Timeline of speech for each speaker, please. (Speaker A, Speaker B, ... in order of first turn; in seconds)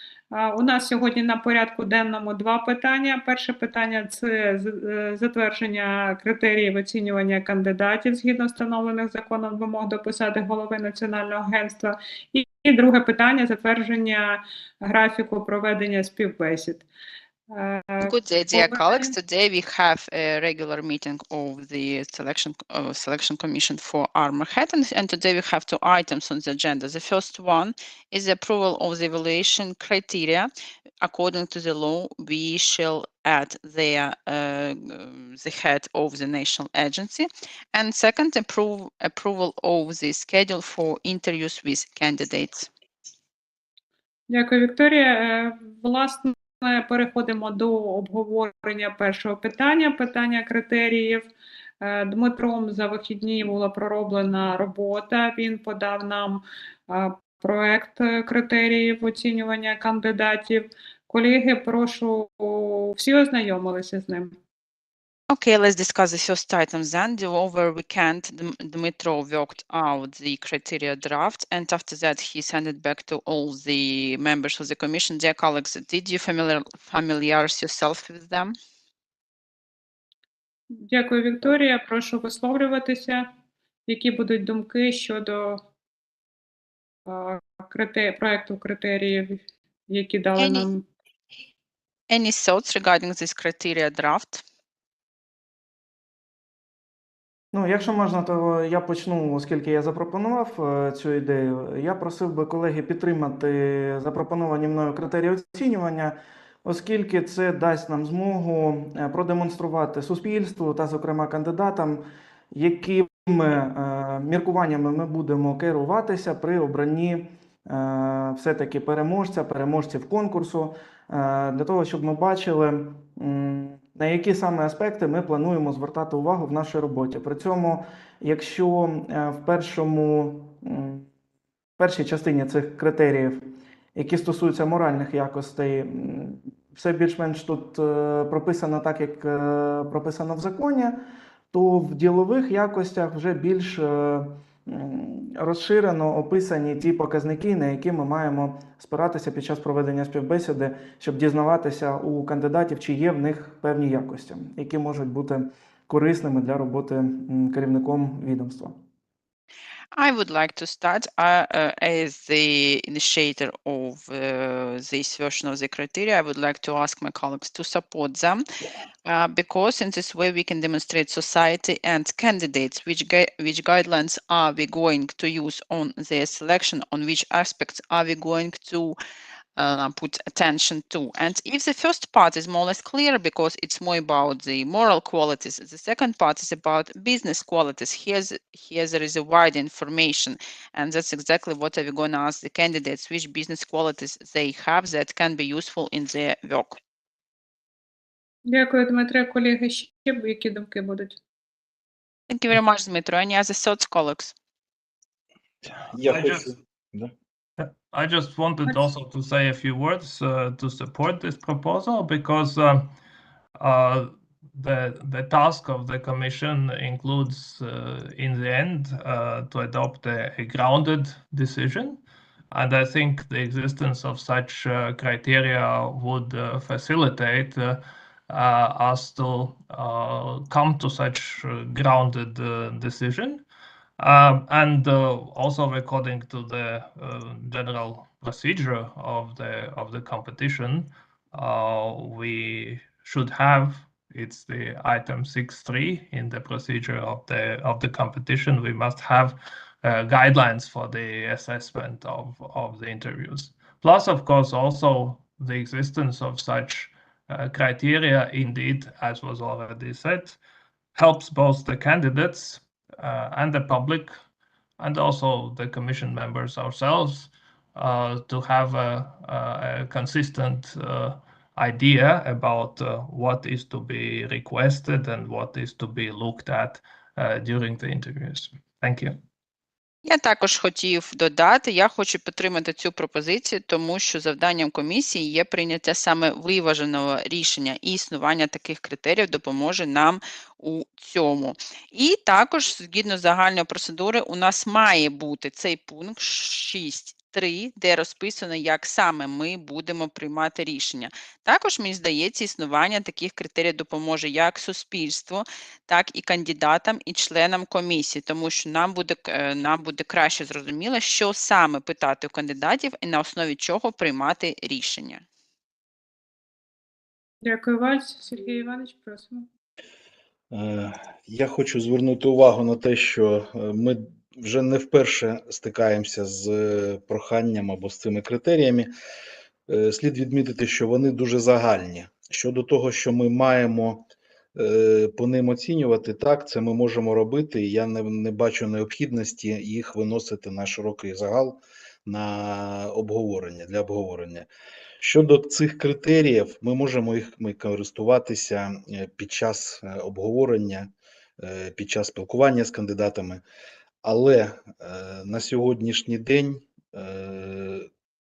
Speaker A: 0.3-16.9, 17.5-19.1, 44.3-51.3, 51.8-64.3, 80.8-83.2, 83.9-85.6, 87.1-90.8, 198.5-201.2, 317.4-319.4
Speaker B: 18.0-30.5, 31.0-42.7, 65.3-78.5, 90.4-90.7, 92.1-94.4, 159.9-168.4, 169.1-178.9, 179.6-196.8, 202.3-204.3, 280.0-315.2
Speaker C: 97.5-131.1, 131.8-133.4, 133.9-141.0, 141.5-158.7
Speaker D: 205.6-207.1, 320.5-328.9, 329.7-344.5, 345.0-353.4, 354.0-357.9
Speaker E: 206.0-206.5, 207.6-212.9, 213.6-233.4, 234.0-260.4, 260.9-264.1, 264.8-279.1